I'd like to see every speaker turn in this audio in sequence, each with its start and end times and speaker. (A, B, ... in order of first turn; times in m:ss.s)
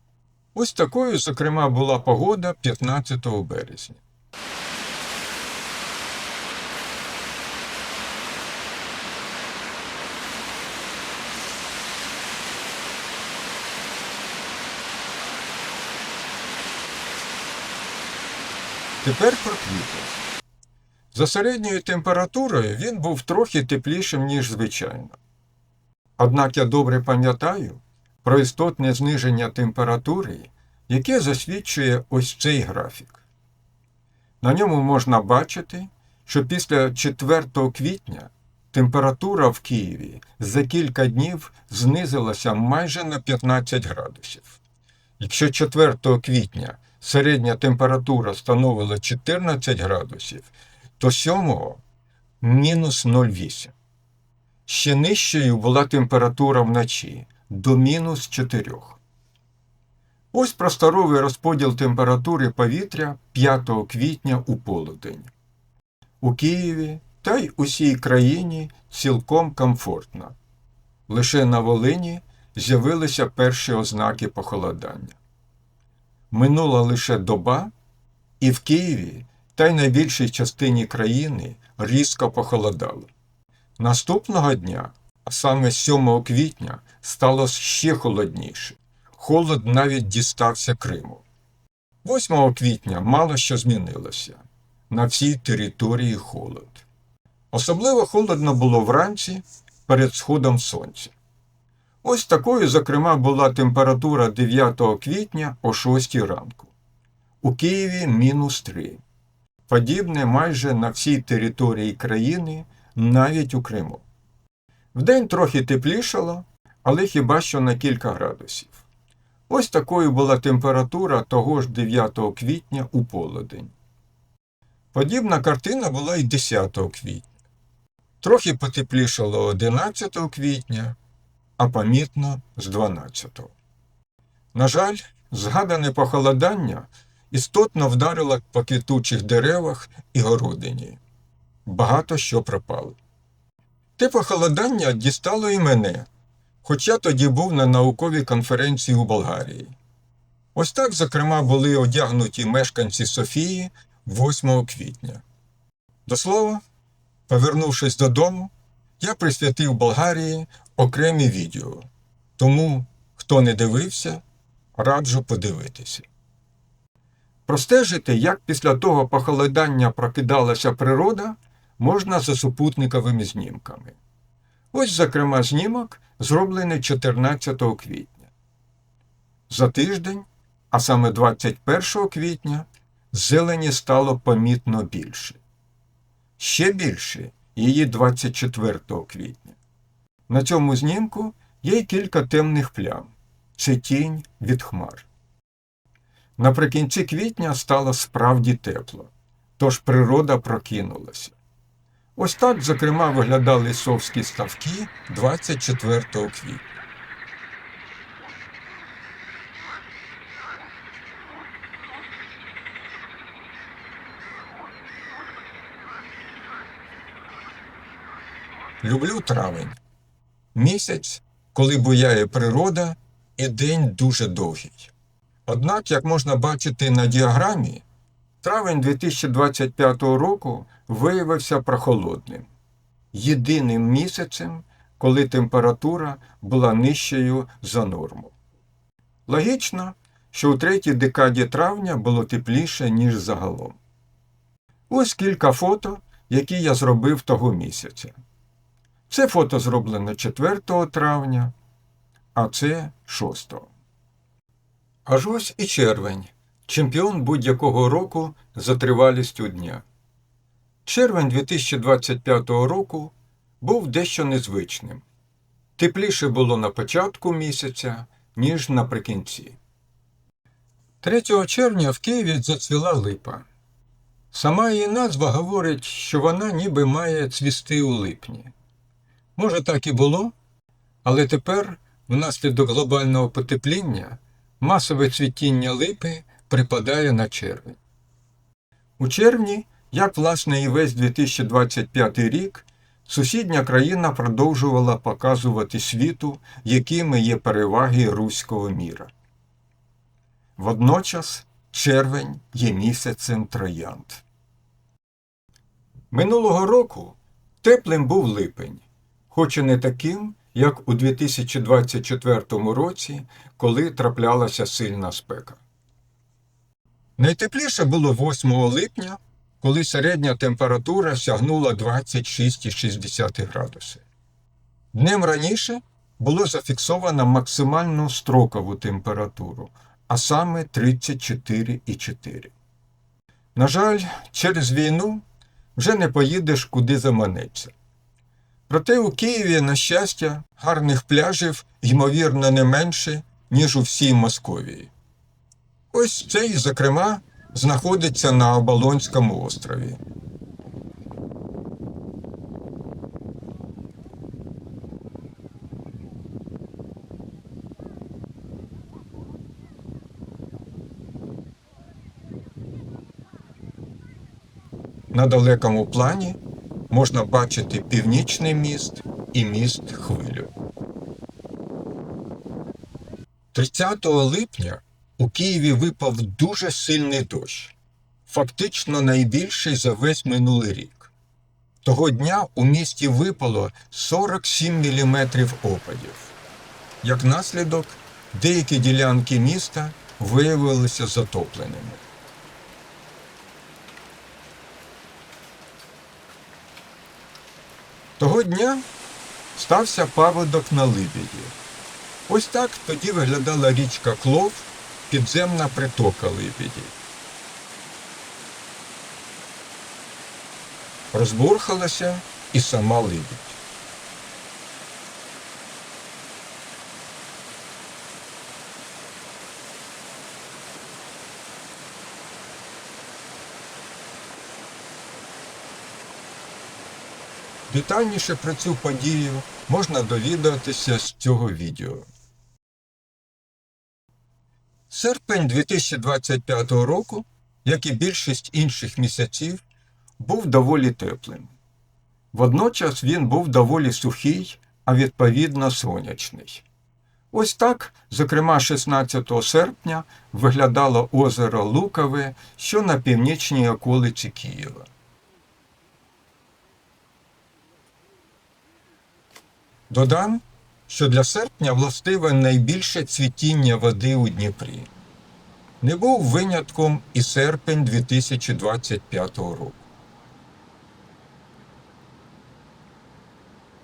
0:00.5-0:04.0 A
0:19.0-0:20.2 A
0:21.1-0:25.2 A
0:26.2-0:33.2 A
0:34.4-0:44.6 A
0:45.2-0:51.8 A
0:52.4-0:53.7 A
0:54.7-0:59.0 A
1:00.3-1:05.3 A
1:06.2-1:10.4 A
1:11.1-1:15.2 A
1:16.3-1:17.7 A
1:18.4-1:23.1 A
1:23.8-1:31.2 A
1:32.0-1:36.8 A
1:37.5-1:41.1 A
1:42.0-1:46.7 A
1:47.4-1:49.0 A
1:49.7-1:54.0 A
1:54.9-1:58.8 A
1:59.5-2:03.7 A
2:04.9-2:07.3 A
2:08.2-2:11.0 A
2:11.6-2:13.5 A
2:14.5-2:21.0 A
2:21.6-2:23.0 A
2:24.0-2:26.1 A
2:26.6-2:29.8 A
2:30.5-2:35.2 A
2:36.0-2:36.6 A
2:37.3-2:41.8 A
2:42.4-2:44.2 A
2:44.7-2:46.1 A
2:47.5-2:54.0 A
2:54.7-2:58.3 A
2:59.5-3:05.4 A
3:06.4-3:09.6 A
3:10.3-3:15.1 A
3:16.4-3:21.4 A
3:22.2-3:26.6 A
3:38.8-3:39.8 A
3:40.5-3:44.9 A
3:45.5-3:47.8 A
3:48.4-3:52.5 A
3:53.1-3:58.3 A
3:59.3-4:03.8 A
4:04.9-4:08.1 A
4:09.1-4:11.5 A
4:12.3-4:13.7 A
4:15.0-4:19.8 A
4:20.8-4:25.0 A
4:25.8-4:29.6 A
4:31.0-4:33.4 A
4:34.3-4:38.5 A
4:39.4-4:40.3 A
4:41.0-4:47.8 A
4:49.0-4:59.1 A
5:00.6-5:04.2 A
5:06.1-5:15.6 A
5:17.2-5:24.0 A
5:24.9-5:32.5 A
5:33.5-5:35.2 A
5:35.8-5:37.7 A
5:38.7-5:44.9 A
5:45.9-5:50.0 A
6:05.1-6:06.4 A
6:06.9-6:10.5 A
6:13.5-6:21.1 A
6:21.8-6:26.3 A
6:27.0-6:32.0 A
6:38.2-6:38.8 A
6:39.5-6:41.5 A
6:42.3-6:46.9 A
6:51.1-6:53.6 A
7:07.7-7:12.1 A
7:14.9-7:19.6 A
7:20.2-7:21.5 A
7:22.3-7:26.6 A
7:27.3-7:34.9 A
7:39.9-7:44.9 A
7:45.8-7:49.8 A